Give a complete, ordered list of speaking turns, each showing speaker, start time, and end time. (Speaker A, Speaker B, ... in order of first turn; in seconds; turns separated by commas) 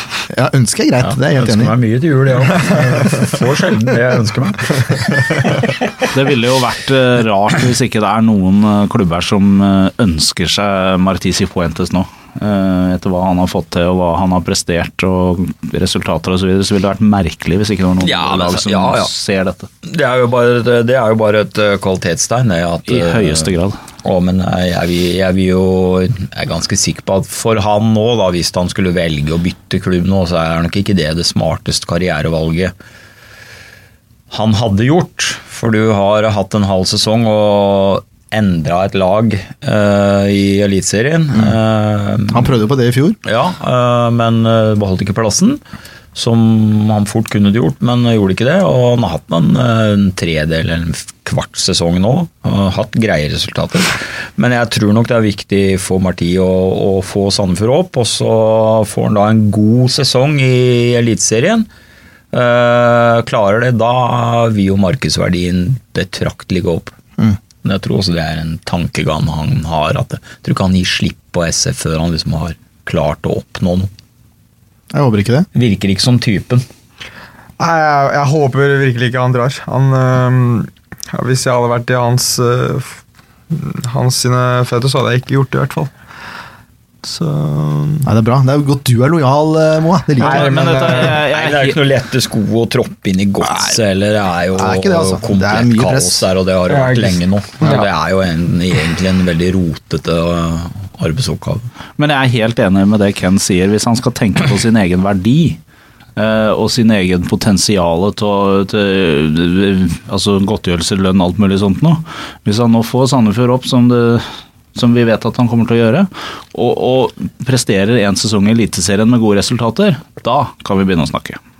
Speaker A: 0.3-1.8, Speaker B: 1.0-5.8, Speaker C: 6.1-19.7, Speaker B: 18.0-19.1, Speaker B: 19.8-23.5, Speaker C: 22.9-23.8, Speaker B: 24.0-32.7, Speaker B: 34.3-42.5, Speaker A: 42.3-43.2, Speaker B: 43.2-45.6, Speaker B: 46.1-61.7, Speaker B: 62.3-66.9, Speaker B: 67.6-73.9, Speaker A: 74.9-75.5, Speaker B: 75.5-76.6, Speaker D: 77.6-83.0, Speaker D: 83.5-85.9, Speaker D: 87.0-88.1, Speaker A: 88.0-90.6, Speaker D: 90.2-91.2, Speaker C: 90.2-91.8, Speaker B: 91.0-101.7, Speaker A: 94.5-96.2, Speaker D: 96.7-97.9, Speaker C: 102.0-105.6, Speaker C: 106.2-121.4